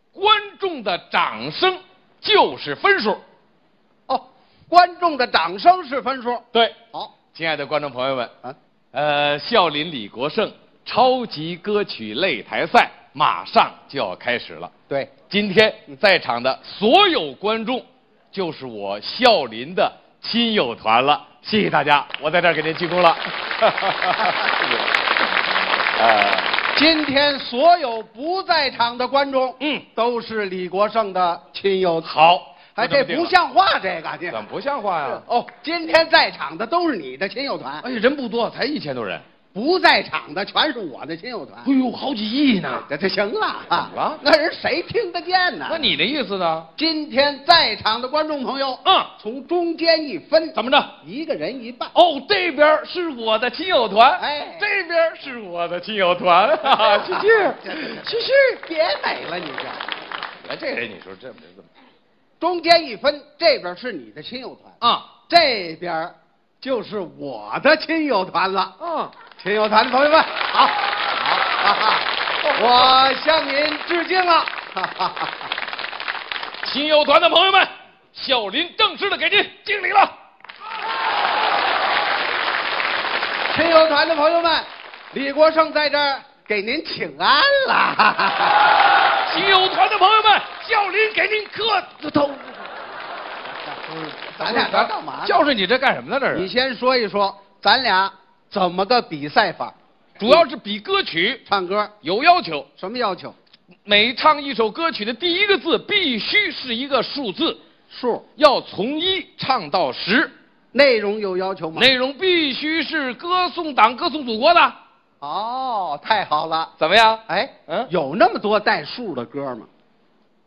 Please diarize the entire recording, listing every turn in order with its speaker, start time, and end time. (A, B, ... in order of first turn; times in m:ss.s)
0:00.1-0:03.2 A
0:04.1-0:07.1 B
0:07.3-0:08.3 A
0:08.9-0:14.7 A
0:15.3-0:24.6 A
0:26.0-0:26.5 A
0:26.7-0:32.1 B
0:29.6-0:29.8 A
0:32.0-0:33.3 A
0:32.8-0:34.4 B
0:34.3-0:35.2 A
0:35.0-0:37.8 B
0:37.8-0:39.2 A
0:39.5-0:41.7 B
0:41.6-0:42.9 A
0:42.8-0:45.9 B
0:43.7-0:44.2 A
0:45.7-0:46.7 A
0:46.8-0:51.9 B
0:48.8-0:49.1 A
0:50.5-0:50.9 A
0:51.9-0:58.4 A
0:54.2-0:54.7 B
0:56.7-0:59.8 B
1:00.4-1:01.7 A
1:02.4-1:04.7 B
1:04.8-1:05.1 A
1:05.3-1:08.8 B
1:08.8-1:09.1 A
1:09.4-1:15.4 B
1:16.6-1:20.1 A
1:23.5-1:28.6 B
1:29.2-1:32.5 A
1:34.1-1:35.4 B
1:34.2-1:36.5 A
1:36.3-1:39.7 B
1:40.2-1:41.4 A
1:41.4-1:41.9 B
1:42.0-1:42.7 A
1:42.8-1:43.4 B
1:43.8-1:47.6 A
1:47.9-1:48.2 B
1:48.4-1:50.3 A
1:50.7-1:51.9 B
1:51.7-1:54.8 A
1:55.2-1:56.7 B
1:56.8-1:57.9 A
1:57.3-1:59.7 B